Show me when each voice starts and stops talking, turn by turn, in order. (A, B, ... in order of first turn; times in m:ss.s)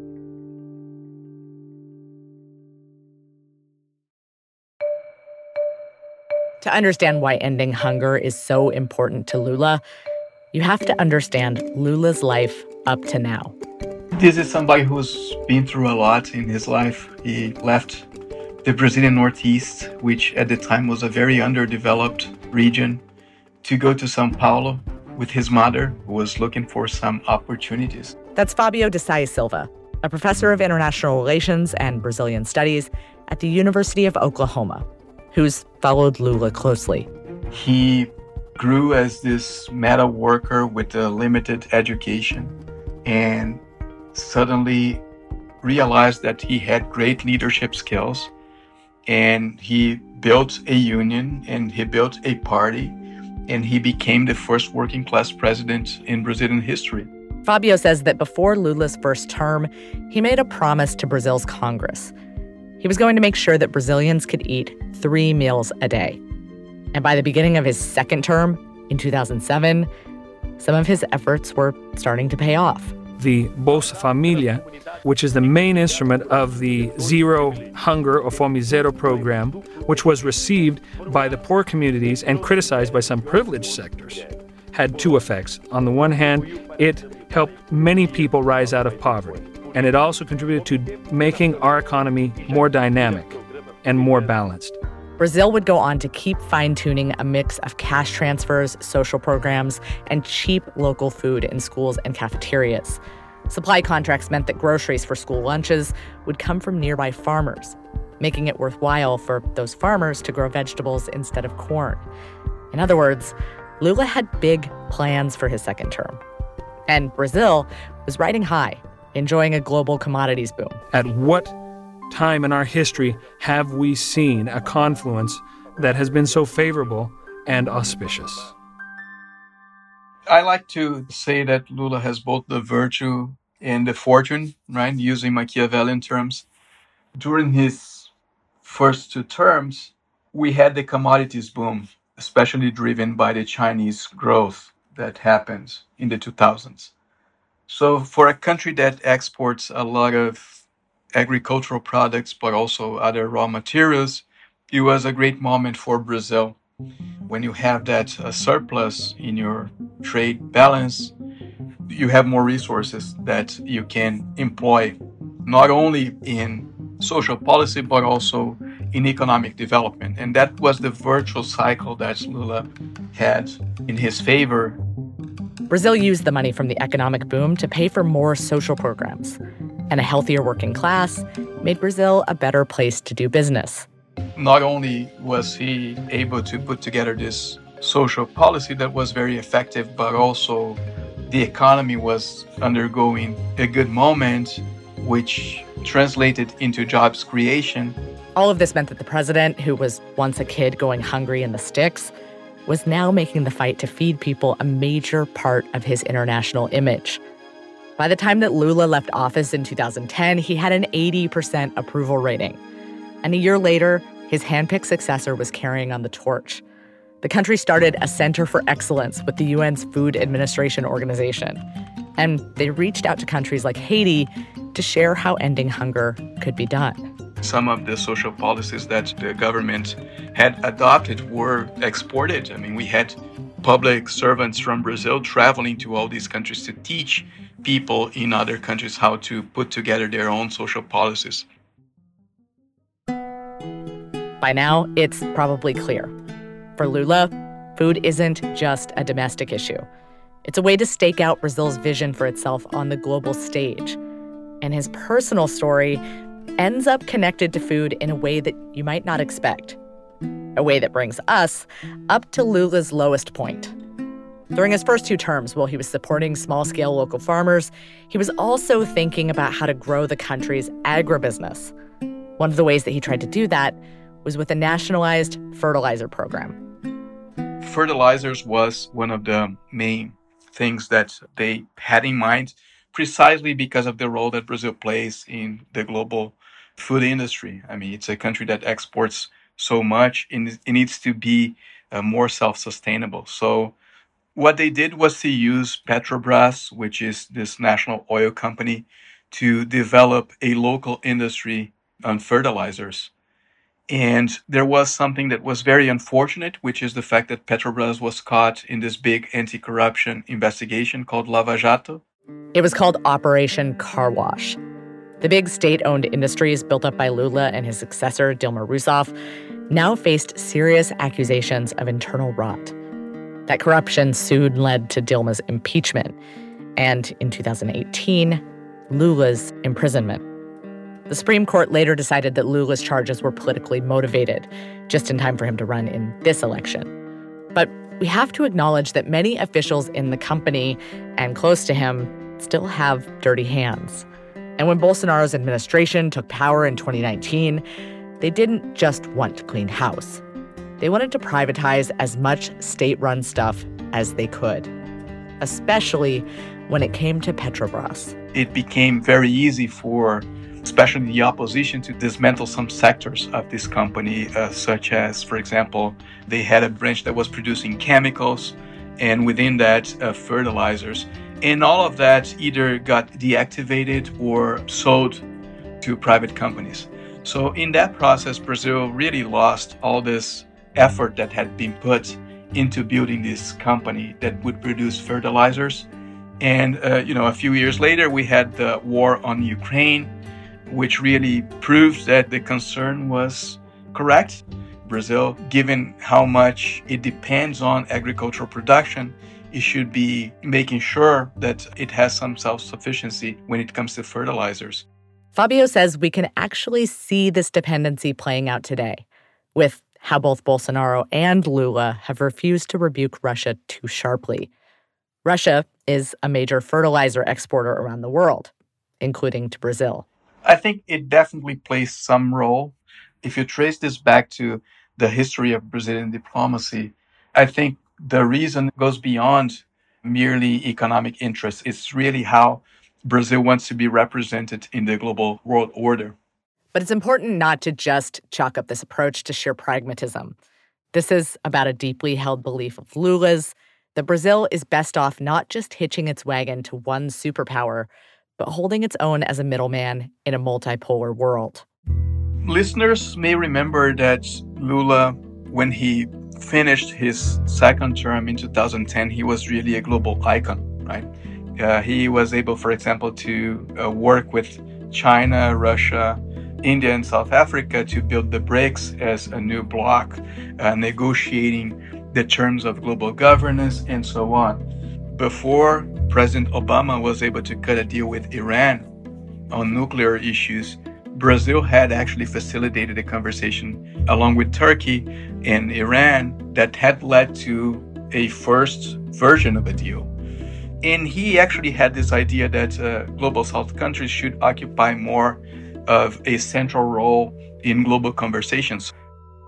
0:06.6-0:09.8 A
0:10.5-0:13.5 A
0:14.2-0:18.1 B
0:18.6-0:23.0 B
0:23.6-0:28.2 B
0:28.4-0:37.1 A
0:37.5-0:42.5 B
0:43.0-0:43.6 B
0:44.1-0:45.0 B
0:45.6-0:48.3 B
0:49.1-0:53.0 B
0:53.5-0:57.1 B
0:57.4-1:02.1 A
1:02.8-1:06.2 A
1:06.9-1:09.9 A
1:10.6-1:12.9 A
1:13.2-1:34.8 C
1:35.2-1:52.1 A
1:52.7-1:56.2 A
1:56.9-2:00.8 A
2:00.9-2:01.6 C
2:02.1-2:08.5 C
2:10.3-2:16.4 B
2:17.2-2:18.1 B
2:18.6-2:26.9 B
2:27.7-2:30.6 B
2:31.1-2:36.6 B
2:37.3-2:41.1 B
2:41.9-2:54.8 B
2:55.7-2:59.4 A
2:59.9-3:03.9 A
3:04.4-3:18.0 B
3:18.4-3:22.1 A
3:22.7-3:27.2 A
3:28.0-3:32.6 A
3:33.2-3:36.6 A
3:37.2-3:41.6 A
3:42.2-3:47.0 A
3:47.4-4:01.5 B
4:04.4-4:06.1 A
4:06.8-4:09.8 A
4:10.4-4:14.0 A
4:14.6-4:16.0 A
4:16.6-4:19.8 A
4:20.6-4:23.7 A
4:24.5-4:31.7 A
4:32.4-4:36.6 A
4:37.6-4:53.8 B
4:54.4-5:03.1 B
5:03.9-5:12.0 B
5:12.6-5:14.6 A
5:15.2-5:19.1 A
5:19.7-5:22.7 A
5:23.5-5:26.2 A
5:26.8-5:30.2 A
5:31.1-5:36.9 A
5:37.6-5:44.1 A
5:44.6-5:47.6 A
5:48.2-5:50.2 A
5:50.8-5:54.7 A
5:55.4-5:58.2 A
5:58.3-6:15.2 B
6:15.8-6:25.9 B
6:26.4-6:30.1 B
6:30.7-6:44.8 B
6:45.4-6:49.0 A
6:49.6-6:54.5 A
6:55.2-7:00.1 A
7:00.4-7:16.2 B
7:16.7-7:20.4 A
7:20.9-7:31.6 A
7:32.4-7:54.6 B
7:55.2-7:58.9 B
7:59.5-8:10.1 B
8:10.8-8:18.9 B